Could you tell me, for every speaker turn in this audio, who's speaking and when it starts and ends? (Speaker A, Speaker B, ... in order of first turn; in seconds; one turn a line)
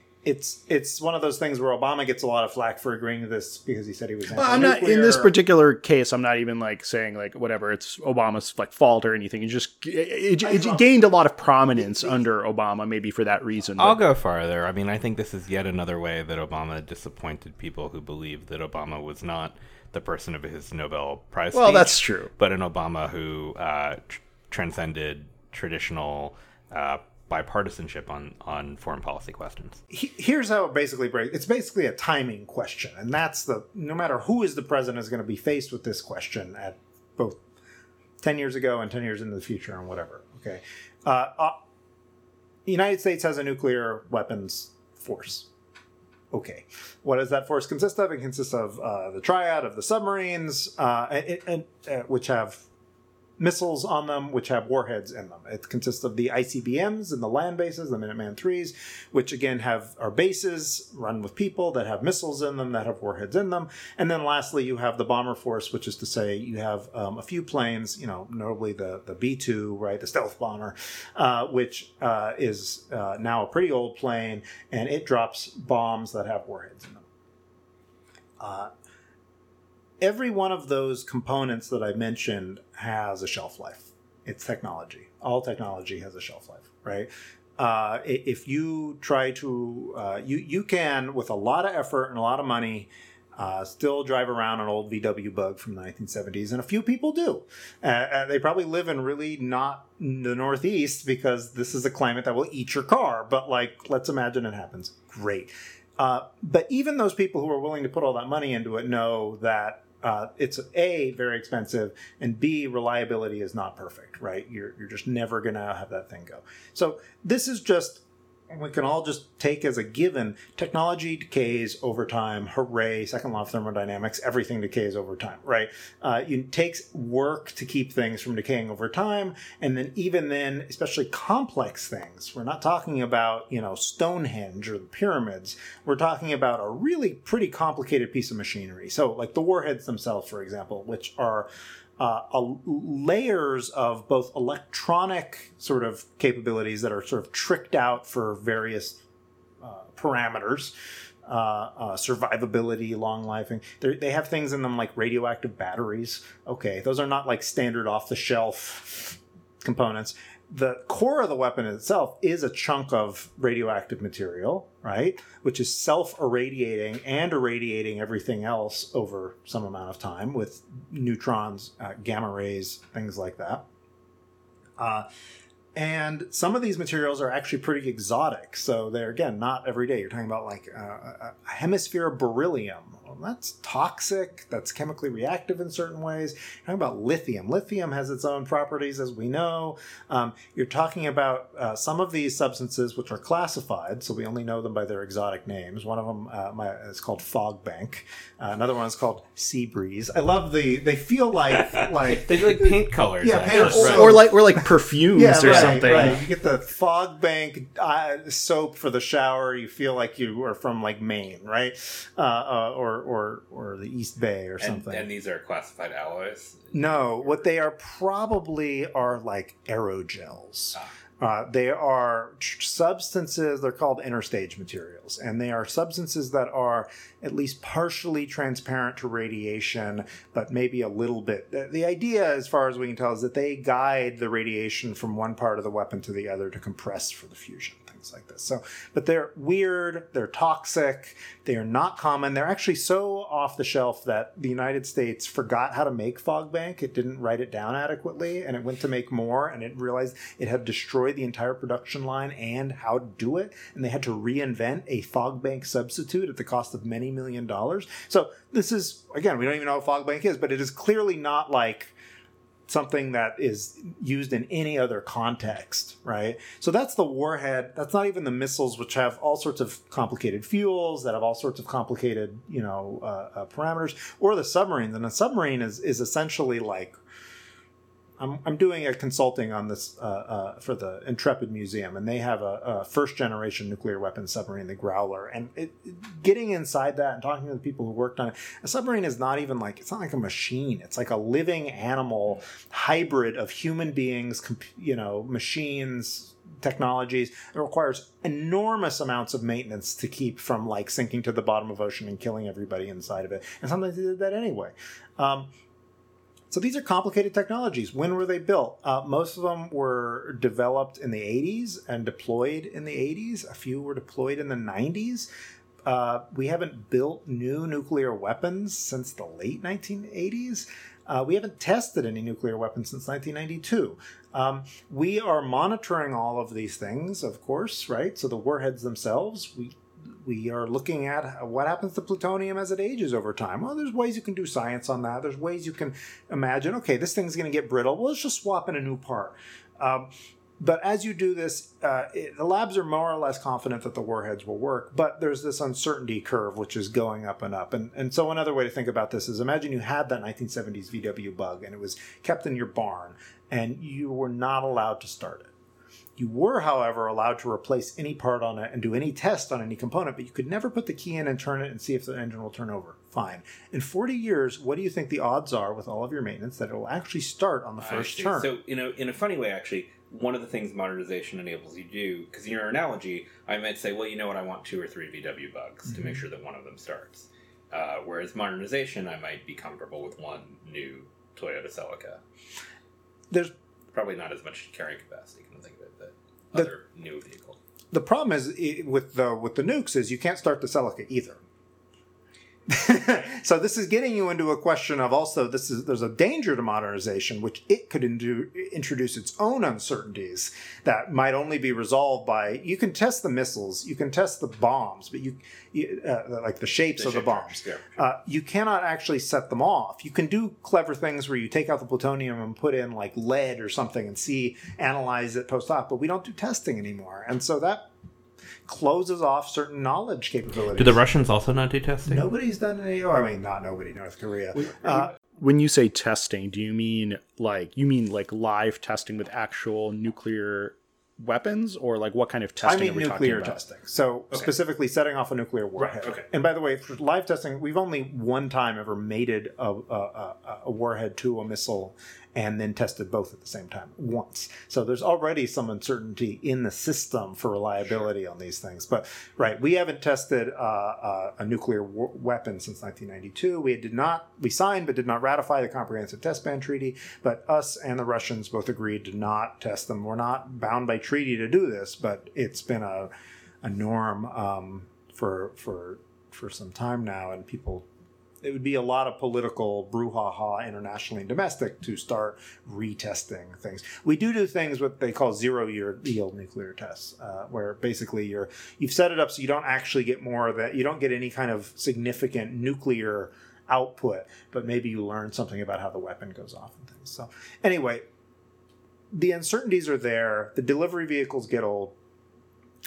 Speaker A: 0.2-5.3
Speaker B: 4.3-14.0
Speaker A: 10.4-10.8
Speaker A: 11.8-12.2
Speaker C: 13.8-29.8
Speaker B: 21.5-22.3
Speaker A: 29.9-37.4
Speaker A: 38.2-41.6
Speaker A: 42.6-45.5
Speaker A: 46.3-52.6
Speaker A: 53.4-77.0
Speaker A: 78.4-78.7
Speaker A: 80.0-149.0
Speaker A: 149.6-150.7
Speaker A: 151.2-173.6
Speaker A: 174.8-175.1
Speaker A: 175.7-215.1
Speaker C: 201.5-204.1
Speaker B: 203.5-206.2
Speaker C: 205.4-206.2
Speaker C: 214.6-217.4
Speaker A: 216.7-261.9
Speaker A: 262.7-276.9
Speaker A: 278.2-305.5
Speaker A: 306.5-315.3
Speaker A: 315.9-355.5
Speaker A: 356.2-368.5
Speaker C: 367.8-382.2
Speaker C: 383.9-387.6
Speaker A: 387.9-391.4
Speaker A: 392.7-417.9
Speaker C: 406.9-407.9
Speaker A: 418.6-421.0
Speaker C: 420.7-422.2
Speaker A: 422.1-425.1
Speaker B: 424.8-433.6
Speaker A: 432.6-463.1
Speaker C: 435.8-436.2
Speaker A: 463.6-467.9
Speaker A: 468.4-488.1
Speaker A: 489.1-491.9